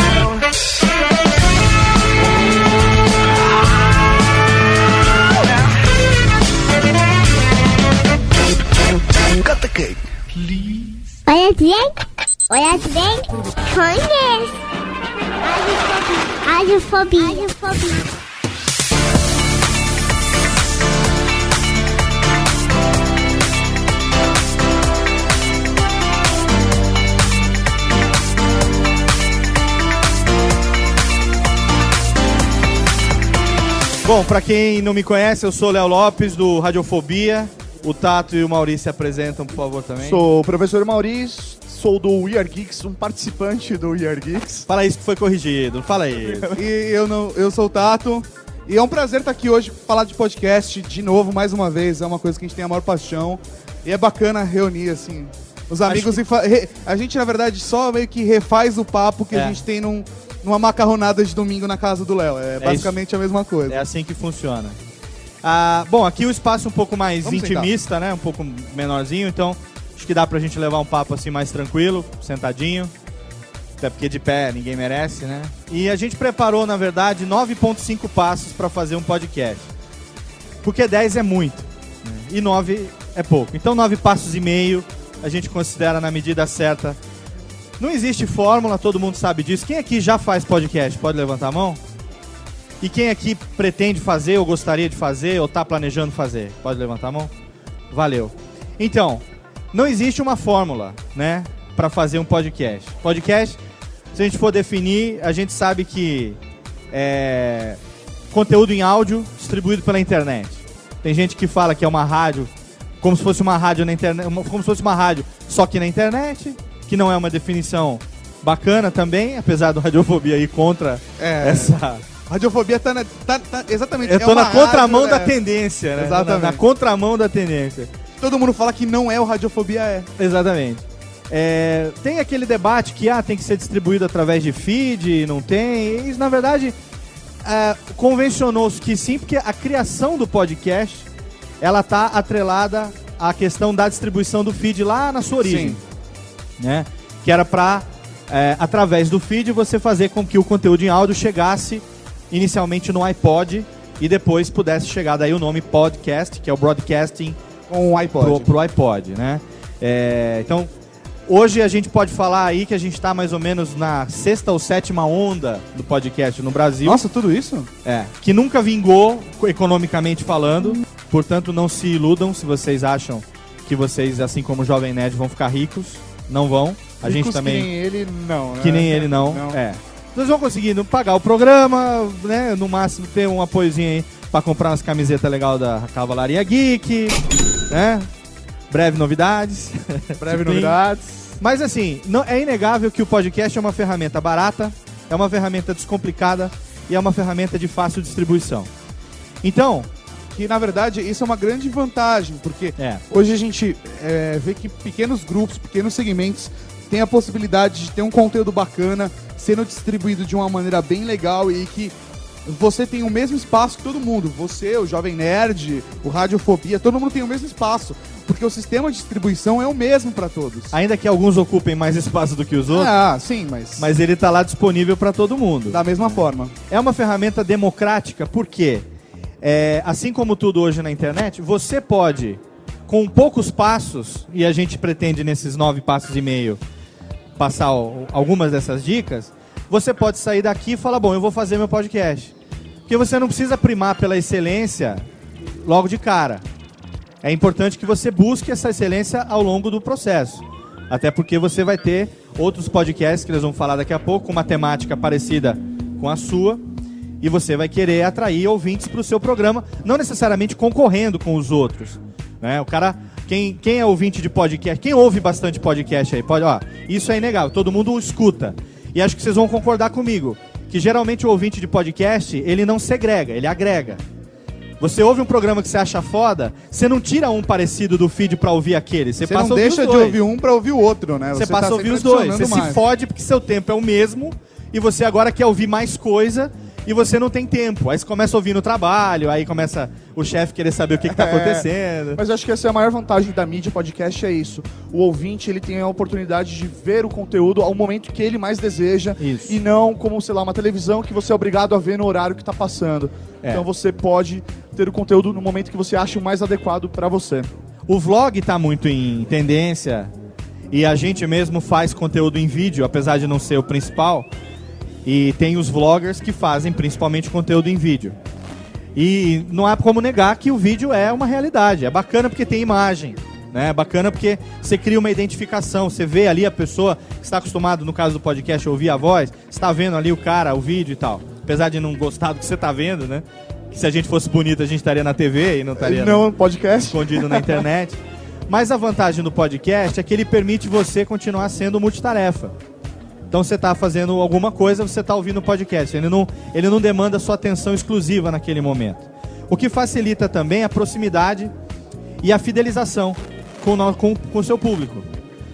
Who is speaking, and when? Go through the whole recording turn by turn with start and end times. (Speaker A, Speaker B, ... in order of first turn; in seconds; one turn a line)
Speaker A: 11.3-14.5
Speaker A: 15.4-18.0
Speaker B: 34.0-40.2
Speaker C: 40.0-44.7
Speaker B: 44.7-46.6
Speaker C: 46.4-63.8
Speaker B: 55.9-56.2
Speaker B: 59.3-59.6
Speaker B: 62.6-62.9
Speaker B: 63.7-64.8
Speaker B: 65.4-72.9
Speaker C: 67.2-67.7
Speaker B: 73.8-79.7
Speaker B: 80.6-87.0
Speaker B: 87.8-91.8
Speaker B: 92.8-97.3
Speaker B: 97.9-103.6
Speaker B: 104.1-106.4
Speaker B: 106.9-107.8
Speaker B: 108.3-112.5
Speaker B: 113.0-122.0
Speaker C: 121.2-125.3
Speaker B: 124.0-127.9
Speaker C: 126.0-126.6
Speaker C: 128.2-130.1
Speaker B: 130.2-136.8
Speaker B: 137.4-141.1
Speaker B: 141.6-145.8
Speaker C: 145.4-145.8
Speaker B: 146.6-157.4
Speaker C: 157.7-158.5
Speaker B: 158.2-160.7
Speaker B: 161.3-167.0
Speaker C: 166.8-167.7
Speaker B: 167.8-177.7
Speaker C: 177.0-179.6
Speaker B: 178.6-187.2
Speaker B: 187.7-188.1
Speaker B: 188.7-190.8
Speaker C: 190.2-191.3
Speaker B: 191.4-198.7
Speaker B: 199.4-199.9
Speaker C: 200.3-211.9
Speaker B: 202.8-203.0
Speaker C: 212.5-220.7
Speaker B: 220.7-222.9
Speaker C: 222.7-223.9
Speaker B: 223.8-228.8
Speaker C: 225.7-226.5
Speaker B: 229.4-236.6
Speaker B: 237.4-242.3
Speaker B: 242.9-245.0
Speaker B: 245.6-246.4
Speaker B: 247.2-256.6
Speaker B: 257.2-274.0
Speaker B: 274.8-280.2
Speaker C: 279.2-282.8
Speaker B: 281.4-292.2
Speaker C: 291.0-307.5
Speaker B: 299.2-299.5
Speaker B: 307.9-310.1
Speaker B: 310.7-314.3
Speaker B: 315.0-318.1
Speaker B: 318.9-336.2
Speaker C: 335.8-337.6
Speaker B: 336.9-342.5
Speaker B: 343.3-351.5
Speaker B: 352.2-355.1